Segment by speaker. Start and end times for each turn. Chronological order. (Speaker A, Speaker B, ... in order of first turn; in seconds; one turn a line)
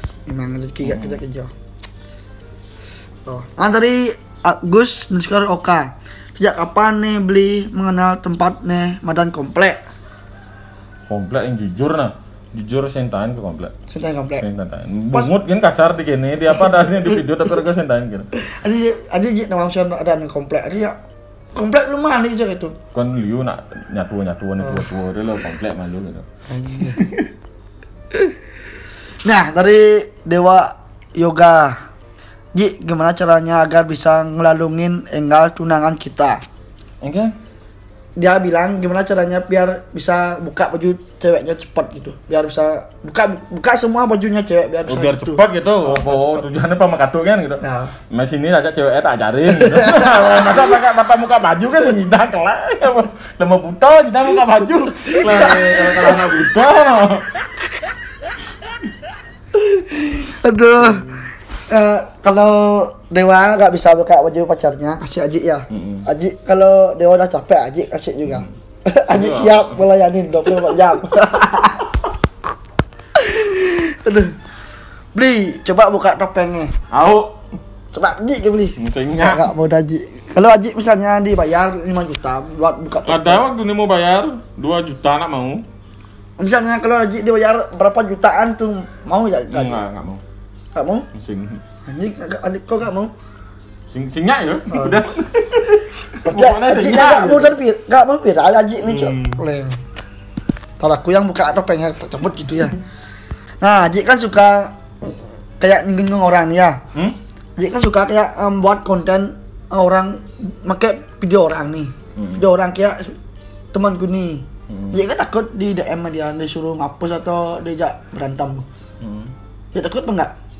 Speaker A: 0.3-1.5
Speaker B: 0.8-1.2
Speaker A: 3.3-9.8
Speaker B: 11.1-13.7
Speaker A: 13.9-14.4
Speaker B: 14.4-18.3
Speaker A: 16.7-17.2
Speaker A: 18.4-21.0
Speaker A: 21.5-22.8
Speaker B: 22.9-27.3
Speaker A: 24.6-24.9
Speaker A: 26.5-27.0
Speaker A: 29.2-31.8
Speaker A: 32.5-36.4
Speaker B: 37.0-37.4
Speaker A: 38.2-46.5
Speaker B: 44.9-57.3
Speaker A: 47.6-47.9
Speaker A: 49.6-50.5
Speaker A: 55.0-56.3
Speaker A: 59.5-61.1
Speaker B: 60.8-61.2
Speaker A: 61.7-71.9
Speaker B: 65.7-66.1
Speaker B: 69.1-69.8
Speaker B: 70.6-70.9
Speaker A: 73.2-74.3
Speaker A: 75.1-76.7
Speaker B: 76.9-77.4
Speaker A: 77.9-83.5
Speaker B: 78.8-79.5
Speaker B: 83.1-85.7
Speaker A: 86.4-89.8
Speaker B: 89.5-90.2
Speaker A: 90.8-91.1
Speaker B: 91.1-91.6
Speaker A: 91.9-93.1
Speaker B: 93.9-97.6
Speaker A: 94.7-95.1
Speaker A: 96.2-99.8
Speaker B: 98.8-99.4
Speaker A: 100.8-102.8
Speaker A: 103.6-106.8
Speaker A: 107.6-113.2
Speaker B: 112.2-112.5
Speaker A: 113.7-118.7
Speaker B: 114.7-115.0
Speaker B: 119.0-119.3
Speaker A: 119.7-120.3